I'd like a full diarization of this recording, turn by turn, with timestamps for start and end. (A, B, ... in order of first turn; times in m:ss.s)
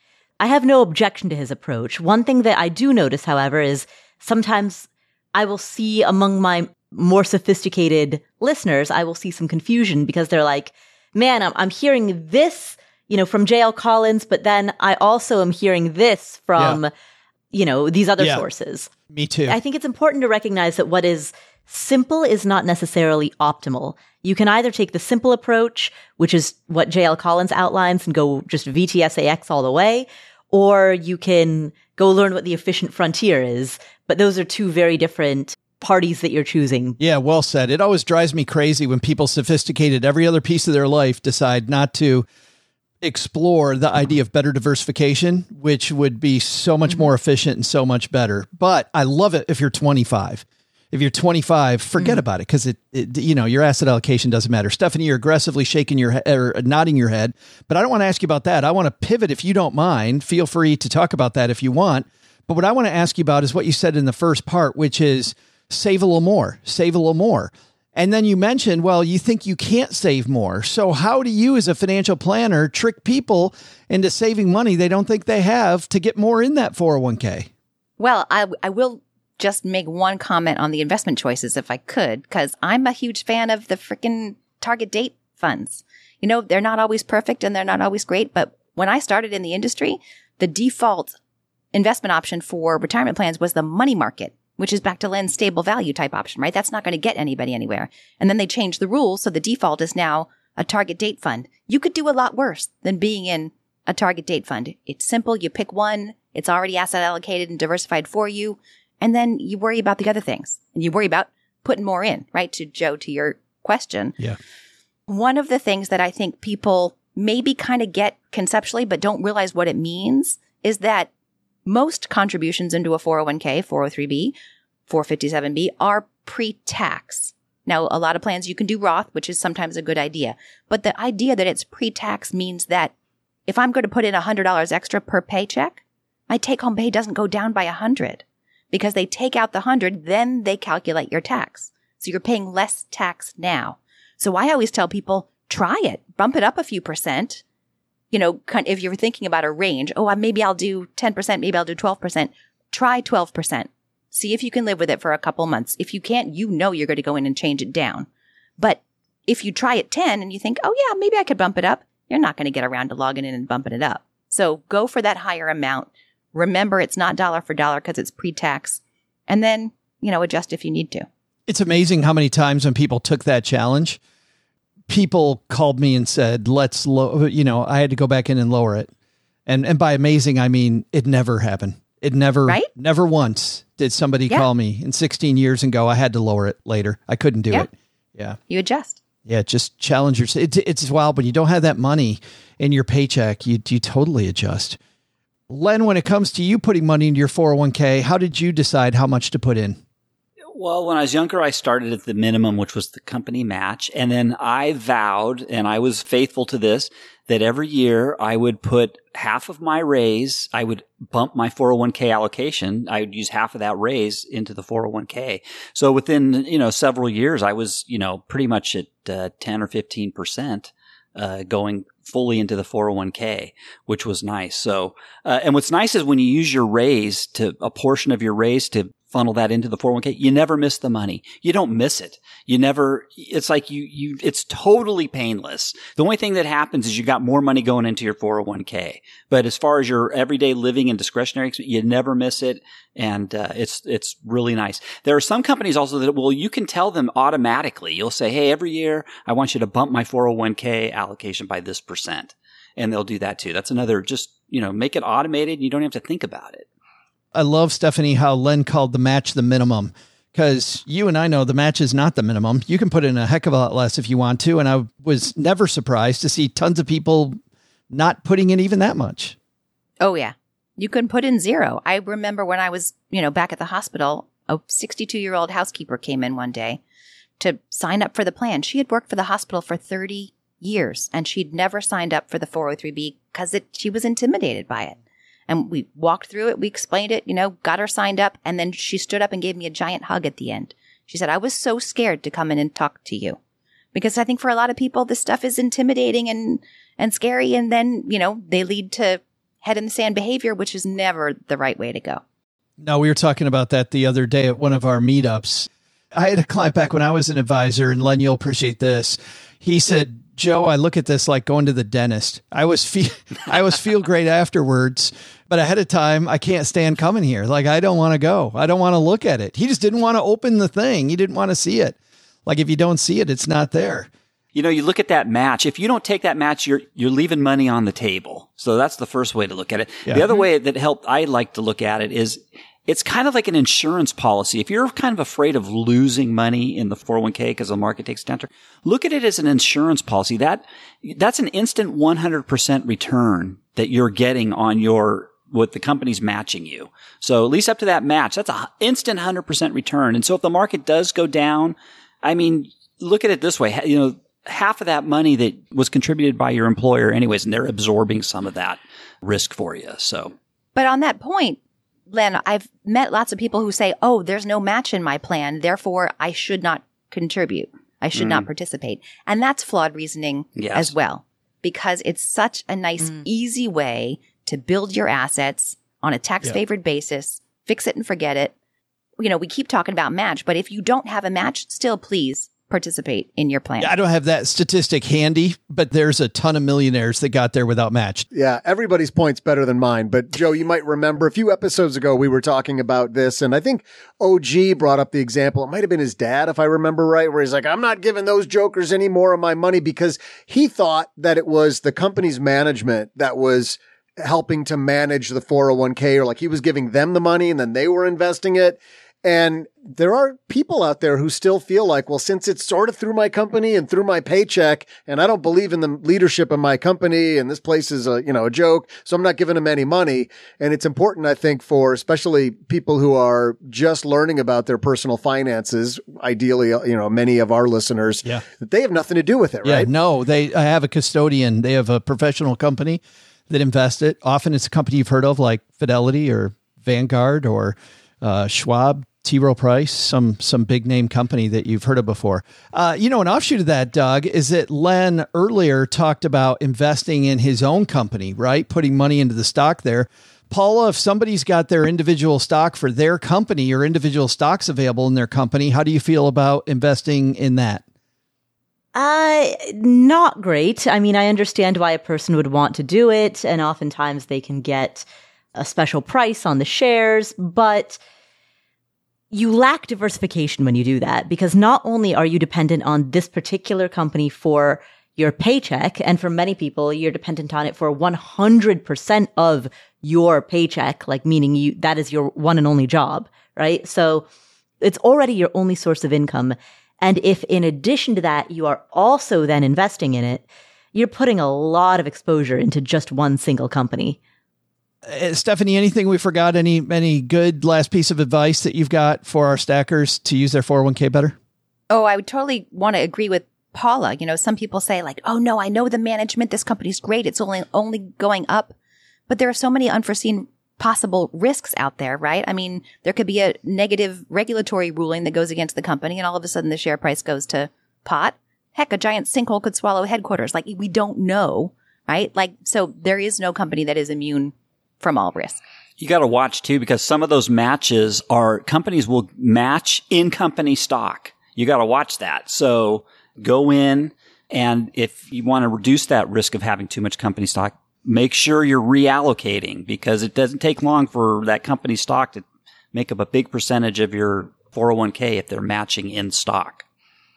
0:00.4-0:16.9 A
0:17.5-0:18.9 A
0:18.2-0:18.4 B
0:19.1-0:19.6 B
0:19.5-0:37.0 A
0:37.0-0:42.2 B
0:43.0-1:17.5 B
1:18.0-1:31.2 C
1:31.7-1:54.2 C
1:55.1-2:01.1 C
2:01.6-2:04.3 C
2:04.9-2:12.9 C
2:13.5-2:27.4 C
2:28.1-2:38.1 C
2:38.6-2:51.1 C
2:51.5-2:54.0 B
2:54.9-2:58.9 B
2:59.5-3:08.4 B
3:08.5-3:09.0 C
3:09.3-3:14.8 B
3:15.5-3:19.8 B
3:20.5-4:16.6 D
4:17.3-4:27.4 B
4:27.9-4:29.4 B
4:30.0-4:36.8 C
4:37.4-4:45.0 C
4:45.5-4:53.4 C
4:53.9-5:02.2 C
5:02.8-5:24.1 B
5:24.5-6:00.3 D
5:30.0-5:30.4 B
6:00.7-6:01.6 C
6:02.1-6:18.5 C
6:08.1-6:08.5 D
6:10.6-6:10.9 D
6:19.2-6:23.9 C
6:23.8-6:28.3 B
6:28.3-7:09.9 E
7:09.6-7:37.8 B
7:38.9-7:48.0 A
7:49.3-8:04.3 A
8:04.8-8:14.2 A
8:15.0-8:21.4 B
8:21.9-8:28.7 C
8:29.3-8:45.6 C
8:46.0-9:06.8 D